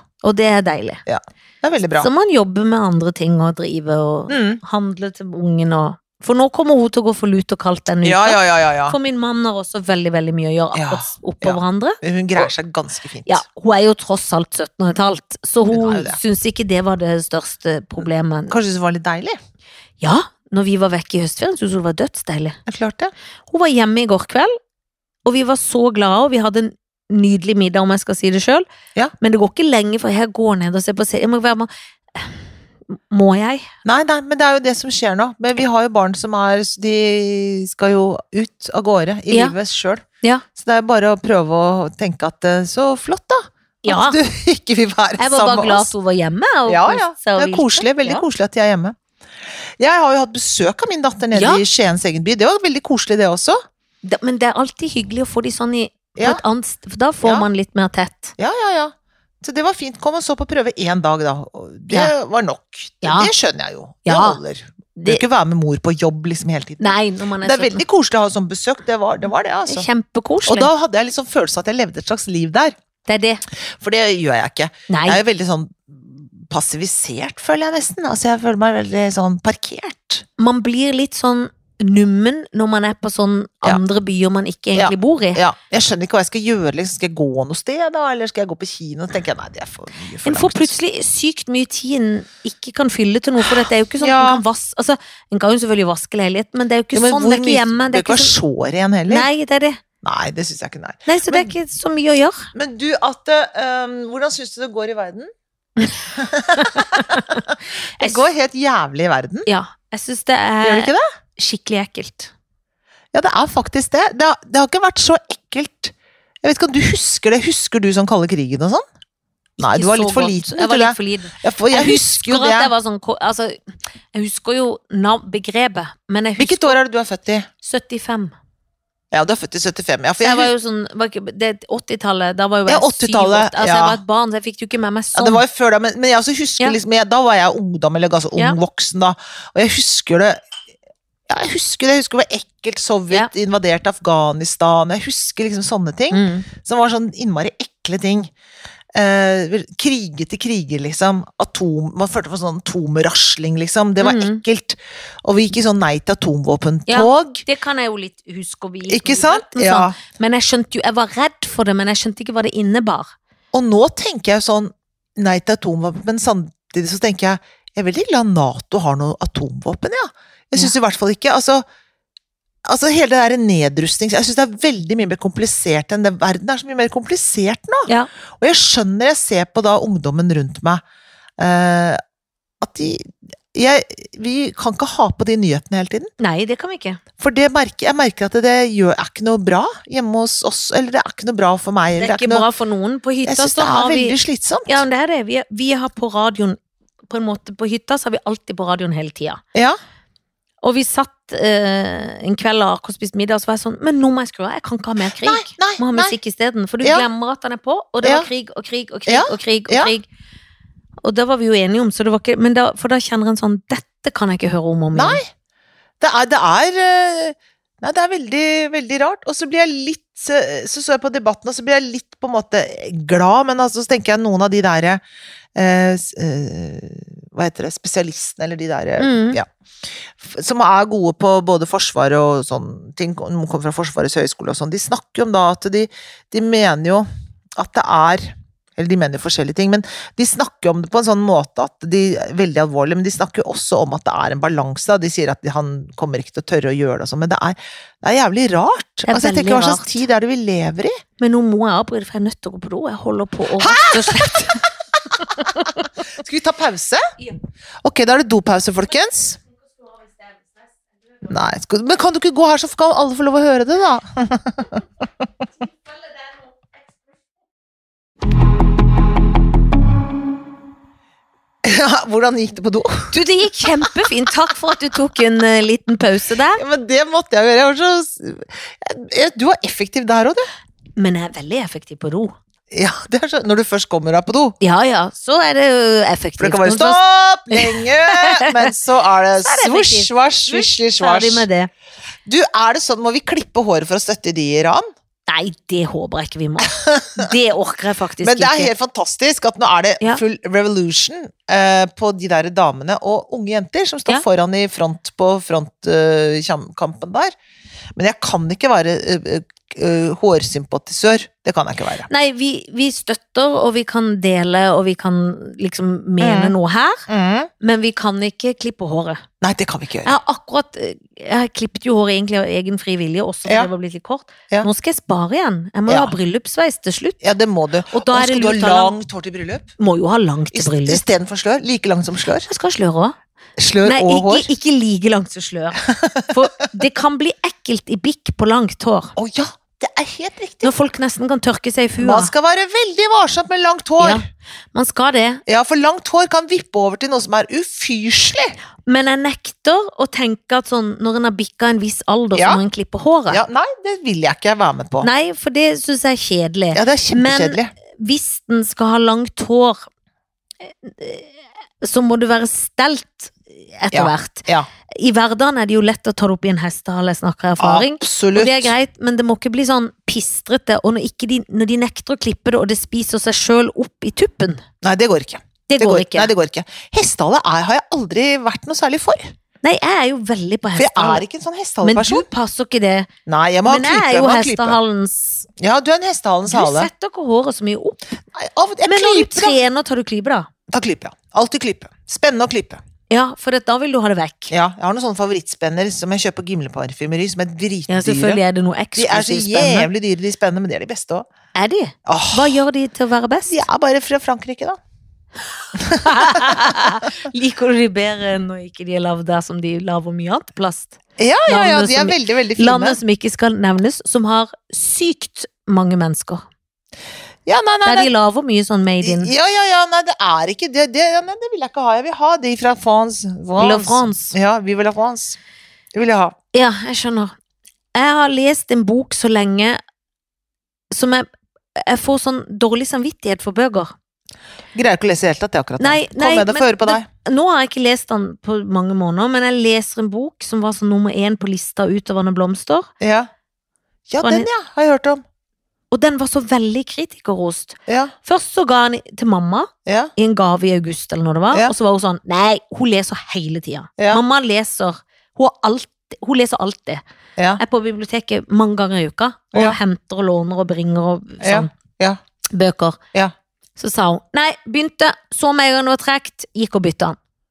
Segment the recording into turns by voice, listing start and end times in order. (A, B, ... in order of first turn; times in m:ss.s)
0:00.2-0:01.0 A
0:01.1-0:02.1 B
0:02.0-0:12.5 A
0:04.3-0:04.6 B
0:08.0-0:09.0 B
0:10.7-0:13.4 B
0:13.3-0:18.6 A
0:15.7-0:16.2 B
0:18.5-0:19.4 B
0:20.0-0:22.6 A
0:22.7-0:23.1 B
0:23.5-0:24.5 A
0:25.2-0:28.6 A
0:29.2-0:32.4 A
0:32.9-0:33.6 A
0:33.8-0:40.0 B
0:40.6-0:45.9 B
0:43.8-0:44.2 A
0:45.2-0:48.2 A
0:46.7-0:49.0 B
0:49.8-0:53.6 B
0:51.3-0:51.6 A
0:54.0-0:58.4 A
0:56.2-0:56.4 B
0:58.4-1:09.9 B
1:03.0-1:03.3 A
1:04.1-1:04.4 A
1:05.0-1:05.2 A
1:06.8-1:07.8 A
1:09.7-1:10.7 A
1:10.5-1:12.8 B
1:13.1-1:13.4 A
1:13.8-1:20.2 B
1:14.9-1:15.2 A
1:20.4-1:25.4 A
1:24.8-1:30.7 B
1:30.2-1:38.3 A
1:33.4-1:34.4 B
1:36.9-1:39.3 B
1:39.1-1:39.8 A
1:40.0-1:41.5 B
1:41.1-1:42.5 A
1:42.5-1:45.3 B
1:46.1-1:49.5 B
1:46.6-1:47.4 A
1:49.5-1:52.3 A
1:50.6-1:51.0 B
1:53.1-1:58.8 B
1:59.6-2:02.7 B
1:59.6-2:03.6 A
2:04.1-2:06.8 A
2:06.4-2:07.5 B
2:07.6-2:08.4 A
2:09.1-2:10.5 B
2:10.2-2:15.4 A
2:12.7-2:14.0 B
2:15.2-2:20.4 B
2:21.3-2:28.3 B
2:26.1-2:26.5 A
2:29.0-2:37.4 B
2:34.0-2:34.4 A
2:36.9-2:43.1 A
2:38.9-2:40.0 B
2:43.5-2:51.6 B
2:52.6-3:00.8 B
3:01.4-3:02.0 B
3:02.6-3:06.1 B
3:06.2-3:07.0 A
3:07.2-3:12.4 B
3:12.0-3:16.6 A
3:13.2-3:14.8 B
3:17.1-3:19.4 A
3:20.6-3:30.0 A
3:25.1-3:26.2 B
3:28.0-3:28.3 B
3:29.1-3:29.9 B
3:31.0-3:35.2 A
3:35.0-3:35.3 B
3:36.0-3:45.0 B
3:45.6-3:49.5 B
3:49.0-3:49.4 A
3:50.2-4:11.0 B
4:09.1-4:10.0 A
4:11.2-4:15.9 A
4:13.6-4:17.1 B
4:17.8-4:19.4 B
4:19.8-4:20.7 A
4:21.2-4:24.8 B
4:25.9-4:26.7 A
4:31.6-4:33.2 B
4:33.1-4:36.6 A
4:36.6-4:40.5 B
4:41.0-4:42.3 A
4:42.7-4:44.6 B
4:44.6-4:47.0 A
4:46.4-4:51.5 B
4:47.5-4:48.7 A
4:49.4-4:51.7 A
4:52.2-4:54.9 B
4:55.3-4:58.7 A
4:56.6-4:57.3 B
4:58.2-5:07.3 B
5:08.0-5:12.1 B
5:12.1-5:17.0 A
5:16.2-5:16.6 B
5:17.1-5:17.5 B
5:17.6-5:19.2 A
5:19.4-5:20.2 B
5:20.0-5:27.2 A
5:25.9-5:26.2 B
5:27.2-5:29.7 B
5:27.9-5:29.0 A
5:29.8-5:31.0 A
5:30.5-5:32.5 B
5:32.4-5:33.2 A
5:33.6-5:34.5 B
5:33.8-5:39.1 A
5:35.9-5:36.3 B
5:39.2-5:40.7 B
5:40.6-5:42.3 A
5:42.0-5:44.2 B
5:44.0-5:45.4 A
5:45.5-5:48.6 B
5:48.9-5:53.4 A
5:52.4-5:52.6 B
5:53.3-5:55.1 B
5:55.0-5:59.9 A
5:56.7-5:57.7 B
6:00.6-6:14.6 A
6:03.9-6:04.7 B
6:07.6-6:08.7 B
6:14.8-6:19.3 B
6:15.7-6:16.3 A
6:19.6-6:21.2 A
6:20.8-6:22.3 B
6:21.8-6:23.1 A
6:23.3-6:24.8 B
6:23.6-6:25.5 A
6:25.6-6:26.9 B
6:26.5-6:28.0 A
6:28.3-6:29.6 B
6:28.8-6:30.5 A
6:30.7-6:32.8 B
6:33.1-6:34.5 A
6:34.5-6:38.4 B
6:37.9-6:39.9 A
6:39.0-6:41.3 B
6:41.6-6:43.6 A
6:42.1-6:42.6 B
6:43.5-6:44.8 B
6:45.8-6:47.0 B
6:45.9-6:56.4 A
6:51.2-6:53.0 B
6:57.5-6:58.1 B
6:57.8-6:59.3 A
6:59.0-7:05.4 B
7:03.6-7:04.4 A
7:05.9-7:06.4 B
7:06.5-7:07.3 A
7:08.0-7:09.8 A
7:10.9-7:13.9 A
7:14.8-7:17.1 B
7:15.8-7:22.9 A
7:23.0-7:23.3 B
7:24.1-7:25.2 B
7:24.2-7:24.5 A
7:25.9-7:37.0 A
7:27.9-7:28.1 B
7:29.9-7:30.1 B
7:34.0-7:34.2 B
7:37.6-7:41.7 A
7:39.5-7:39.8 B
7:41.4-7:42.2 B
7:42.5-7:43.0 A
7:43.8-7:47.2 A